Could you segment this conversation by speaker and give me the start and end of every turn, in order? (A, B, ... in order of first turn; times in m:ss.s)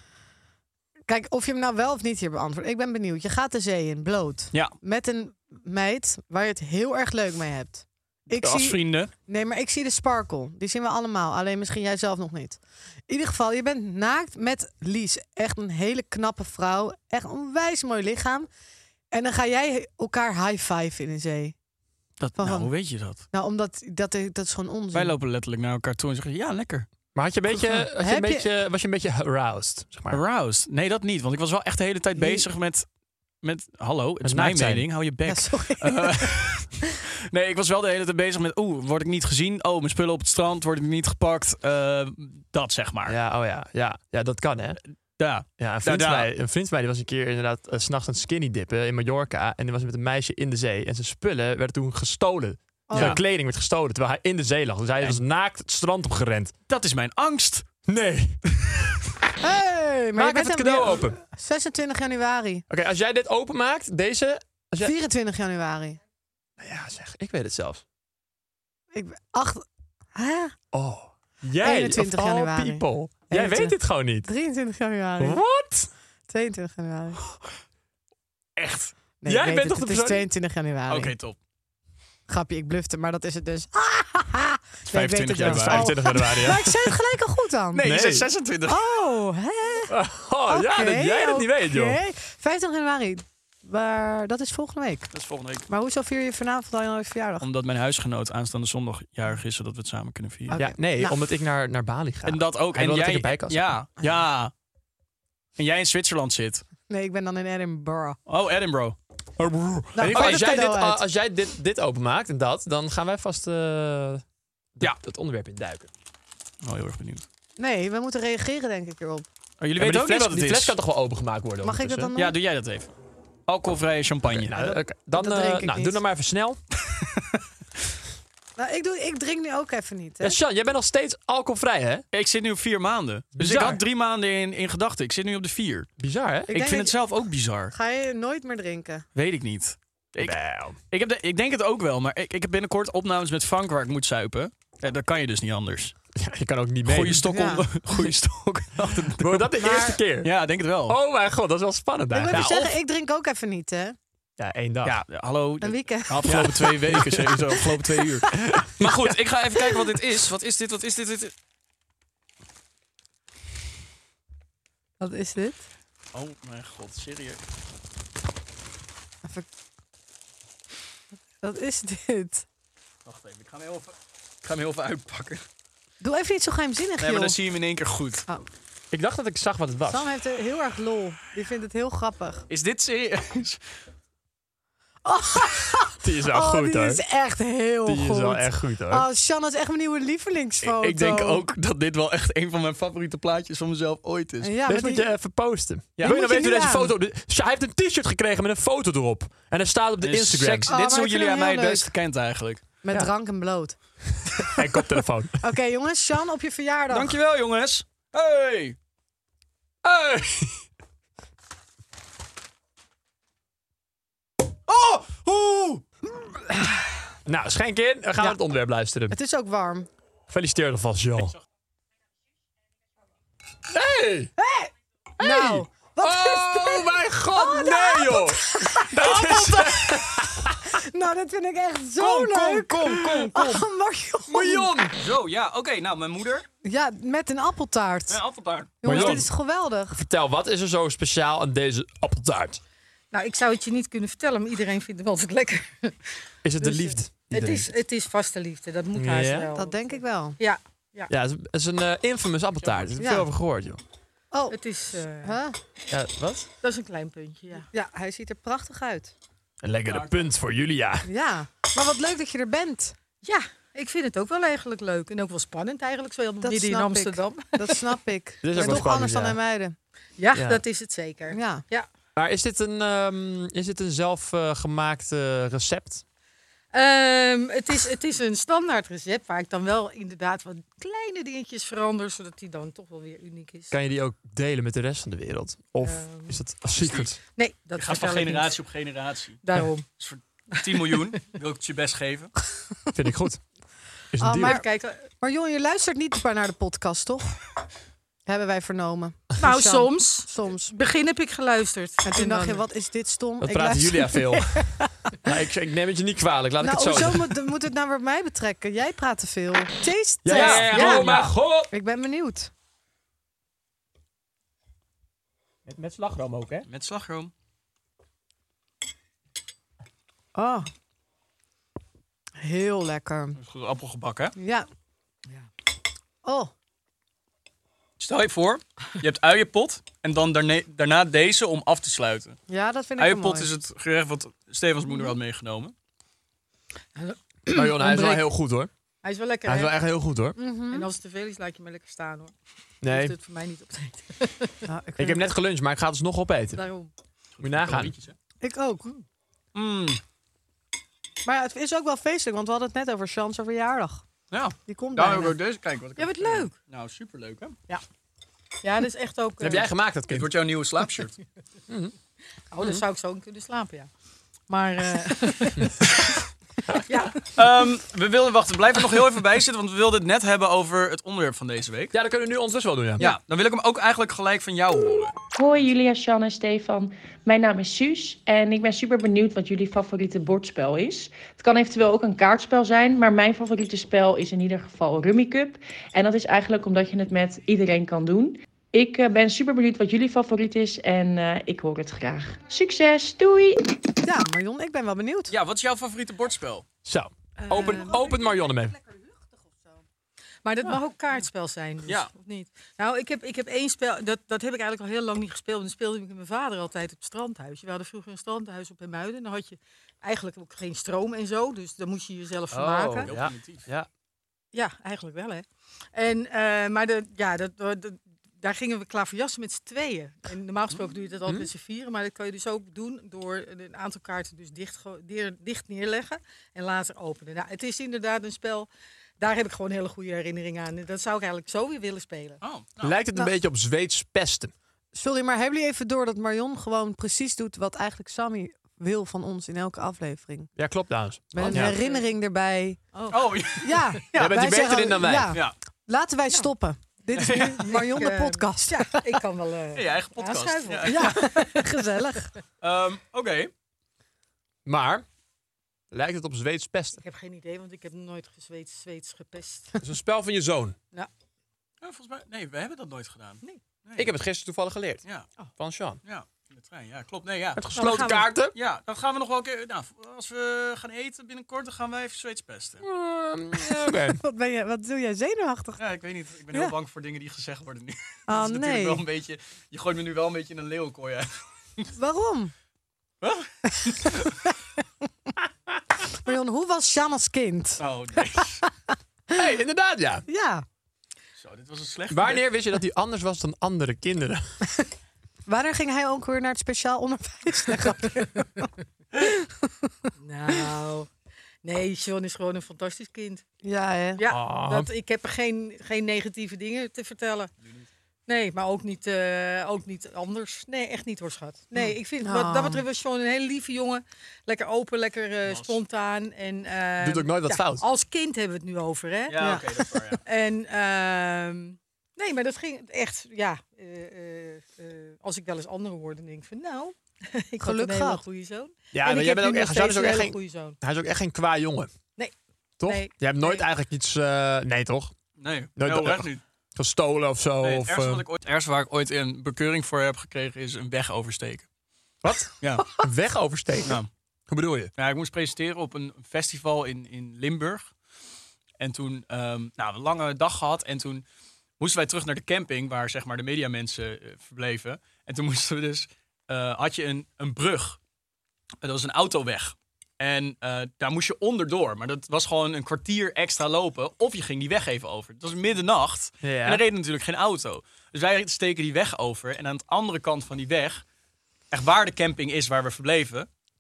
0:01.1-0:18.5 A
0:08.4-0:09.1 B
0:19.1-0:21.6 A
0:22.2-0:23.2 B
0:22.4-0:22.7 A
0:23.3-0:25.1 A
0:24.9-0:26.9 B
0:27.2-0:30.2 C
0:27.5-0:28.5 A
0:30.1-0:32.9 B
0:32.2-0:32.4 A
0:33.4-0:36.7 B
0:34.2-0:34.9 C
0:35.3-0:36.3 A
0:37.3-0:43.2 B
0:43.1-0:44.8 C
0:45.2-0:46.3 B
0:45.6-0:56.5 C
0:52.9-0:53.2 A
0:56.7-0:57.7 B
0:57.9-0:59.0 C
0:59.4-1:02.6 A
1:00.2-1:01.2 C
1:02.7-1:04.9 C
1:04.8-1:06.0 A
1:06.6-1:07.8 C
1:08.9-1:10.6 A
1:10.7-1:14.3 C
1:11.6-1:15.4 A
1:15.2-1:15.9 C
1:16.3-1:17.2 A
1:18.6-1:18.9 B
1:19.2-1:21.1 A
1:19.3-1:20.3 C
1:20.9-1:21.4 B
1:22.3-1:27.8 A
1:24.9-1:25.9 B
1:25.4-1:26.9 C
1:27.7-1:28.9 B
1:27.8-1:28.3 C
1:28.7-1:30.0 A
1:29.9-1:32.0 C
1:30.5-1:35.1 A
1:35.1-1:35.7 B
1:35.7-1:37.5 A
1:37.4-1:40.6 B
1:40.5-1:41.2 A
1:40.6-1:43.8 C
1:42.2-1:44.5 B
1:45.6-1:46.7 B
1:46.9-1:48.2 A
1:48.3-1:49.0 B
1:49.4-1:54.2 C
1:50.0-1:51.0 A
1:50.0-1:50.5 B
1:54.8-1:55.9 C
1:56.6-1:57.2 B
1:57.6-1:59.3 A
1:59.6-2:00.8 B
1:59.8-2:02.1 C
2:01.6-2:02.4 A
2:02.2-2:02.9 B
2:03.5-2:04.6 B
2:04.3-2:06.6 C
2:04.6-2:06.0 A
2:06.9-2:07.4 B
2:08.6-2:10.4 A
2:10.2-2:12.0 C
2:12.1-2:15.9 B
2:13.4-2:13.8 C
2:16.0-2:16.6 C
2:16.5-2:17.7 B
2:16.5-2:17.0 A
2:17.7-2:19.1 A
2:19.2-2:26.0 B
2:20.2-2:20.8 C
2:26.2-2:27.3 C
2:26.8-2:29.5 B
2:27.2-2:27.6 A
2:29.2-2:30.3 C
2:29.6-2:30.0 A
2:30.2-2:31.0 B
2:30.9-2:32.7 C
2:32.1-2:34.0 A
2:32.3-2:32.7 B
2:34.4-2:35.0 C
2:34.8-2:41.3 B
2:35.6-2:36.7 A
2:36.2-2:37.7 C
2:38.6-2:39.2 C
2:45.0-2:45.7 A
2:46.1-2:47.4 B
2:51.4-2:52.5 A
2:53.1-2:55.4 B
2:56.0-2:57.4 A
2:57.0-2:58.2 B
2:58.9-3:00.1 C
2:59.9-3:02.5 A
3:02.5-3:03.6 B
3:05.0-3:11.4 A
3:06.0-3:07.0 C
3:07.9-3:09.1 C
3:10.6-3:14.5 B
3:14.4-3:15.1 A
3:14.7-3:20.7 C
3:16.0-3:16.9 A
3:20.0-3:22.6 B
3:20.7-3:21.9 A
3:22.8-3:23.8 A
3:24.4-3:25.5 C
3:25.4-3:27.2 A
3:26.9-3:28.8 B
3:29.8-3:30.6 C
3:34.7-3:35.8 B
3:37.3-3:39.2 C
3:39.1-3:39.9 A
3:40.3-3:41.4 C
3:43.7-3:44.3 C
3:44.4-3:49.3 A
3:45.2-3:50.6 C
3:49.0-3:50.0 B
3:50.7-3:54.8 A
3:52.0-3:53.6 B
3:54.3-3:54.9 C
3:55.0-3:56.5 B
3:56.6-3:58.2 A
3:58.1-3:59.2 B
3:58.8-4:00.0 A
3:58.8-3:59.3 C
3:59.9-4:02.6 C
4:03.1-4:06.0 D
4:06.4-4:07.7 C
4:06.6-4:11.1 D
4:08.9-4:09.5 C
4:09.6-4:10.4 A
4:11.1-4:13.8 C
4:12.6-4:12.9 B
4:13.0-4:13.3 A
4:14.3-4:14.6 A
4:14.5-4:15.4 D
4:15.2-4:15.6 A
4:15.9-4:16.5 C
4:16.6-4:17.7 D
4:17.7-4:19.1 A
4:19.6-4:21.1 C
4:19.9-4:20.3 B
4:21.1-4:23.0 A
4:23.2-4:28.0 D
4:26.4-4:29.8 A
4:28.4-4:29.4 C
4:30.2-4:31.9 D
4:30.3-4:30.6 C
4:31.3-4:31.6 A
4:32.2-4:36.0 C
4:36.7-4:43.8 D
4:43.7-4:47.2 C
4:45.8-4:46.4 D
4:46.8-4:47.1 B
4:47.4-4:48.6 D
4:47.8-4:49.4 B
4:49.4-4:49.9 D
4:50.0-4:52.3 B
4:50.7-4:51.1 D
4:52.9-4:53.4 C
4:54.1-4:54.6 C
4:54.2-4:54.7 A
4:54.4-4:55.0 D
4:55.2-4:57.4 A
4:58.3-5:00.7 A
4:59.4-5:02.6 D
5:02.0-5:04.7 A
5:03.4-5:07.4 C
5:06.6-5:11.1 A
5:10.2-5:11.7 C
5:10.4-5:11.2 B
5:10.7-5:11.1 D
5:11.7-5:12.5 A
5:15.7-5:16.7 C
5:16.7-5:17.3 B
5:20.4-5:20.7 A
5:22.4-5:23.4 A
5:23.4-5:24.4 B
5:24.4-5:24.7 A
5:26.2-5:26.5 A
5:28.0-5:32.4 B
5:32.5-5:33.5 A
5:33.0-5:35.7 B
5:37.0-5:38.1 D
5:37.5-5:38.7 C
5:39.0-5:39.8 D
5:39.5-5:40.4 C
5:40.4-5:40.9 A
5:40.7-5:44.6 D
5:42.8-5:43.2 C
5:44.7-5:45.3 A
5:45.0-5:46.6 C
5:46.5-5:46.9 D
5:47.4-5:48.2 B
5:47.4-5:48.0 C
5:48.4-5:48.9 A
5:49.5-5:50.0 B
5:51.2-5:54.0 A
5:54.3-5:57.6 B
5:54.7-5:55.4 A
5:56.0-5:56.5 D
5:58.6-5:59.7 D
5:59.4-6:00.4 C
6:00.1-6:01.2 B
6:01.7-6:01.9 C
6:02.5-6:03.9 D
6:04.5-6:05.8 D
6:06.9-6:07.3 D
6:07.3-6:11.9 B
6:11.9-6:13.1 C
6:13.0-6:15.2 B
6:15.4-6:33.6 E
6:34.0-6:35.3 A
6:35.3-6:36.6 B
6:36.8-6:38.8 C
6:37.4-6:38.1 D
6:40.4-6:53.1 D
6:41.9-6:42.1 B
6:52.5-6:53.9 C
6:53.1-6:53.6 B
6:54.5-7:08.7 D
7:09.2-7:12.4 D
7:12.4-7:13.0 B
7:12.8-7:14.5 C
7:15.0-7:20.5 A
7:20.6-7:21.8 C
7:21.3-7:22.8 A
7:21.5-7:22.0 D
7:22.9-7:23.4 D
7:23.1-7:23.9 B
7:23.6-7:29.0 A
7:24.1-7:25.4 C
7:27.2-7:27.7 B
7:27.2-7:31.7 D
7:29.7-7:31.3 B
7:30.9-7:32.3 A
7:32.6-7:33.5 B
7:34.7-7:35.0 C
7:35.9-7:37.0 C
7:37.0-7:39.7 D
7:39.8-7:40.8 C
7:41.8-7:44.1 B
7:44.0-7:45.0 C
7:45.6-7:46.0 C
7:46.0-7:47.7 B
7:47.6-7:48.6 C
7:47.8-7:48.3 D
7:48.5-7:52.8 B
7:52.8-7:54.2 C
7:53.6-7:55.8 A
7:55.8-8:01.9 B
7:58.3-7:59.0 A
8:02.0-8:02.5 A
8:03.2-8:04.4 B
8:06.2-8:07.8 A
8:07.8-8:08.6 B
8:09.3-8:10.2 C
8:10.3-8:10.6 A
8:11.4-8:12.4 B
8:12.1-8:14.5 C
8:15.5-8:18.7 A
8:19.2-8:19.9 A
8:20.2-8:21.1 D
8:21.6-8:23.4 D
8:23.6-8:24.2 A
8:24.2-8:27.5 D
8:24.3-8:24.9 C
8:28.3-8:39.4 D
8:31.7-8:32.8 A
8:35.4-8:35.8 B
8:37.0-8:37.8 C
8:39.3-8:40.2 B
8:39.4-8:39.7 A
8:40.3-8:50.8 D
8:47.6-8:48.2 A
8:48.9-8:51.9 C
8:52.8-8:55.1 C
8:52.8-8:53.6 D
8:55.4-8:56.4 B
8:55.8-8:58.3 C
8:57.6-9:01.7 B
9:02.2-9:04.9 C
9:02.6-9:03.0 B
9:05.0-9:07.9 B
9:08.8-9:11.3 B
9:11.8-9:18.0 B
9:18.8-9:31.0 B
9:26.4-9:26.8 C
9:31.7-9:33.5 B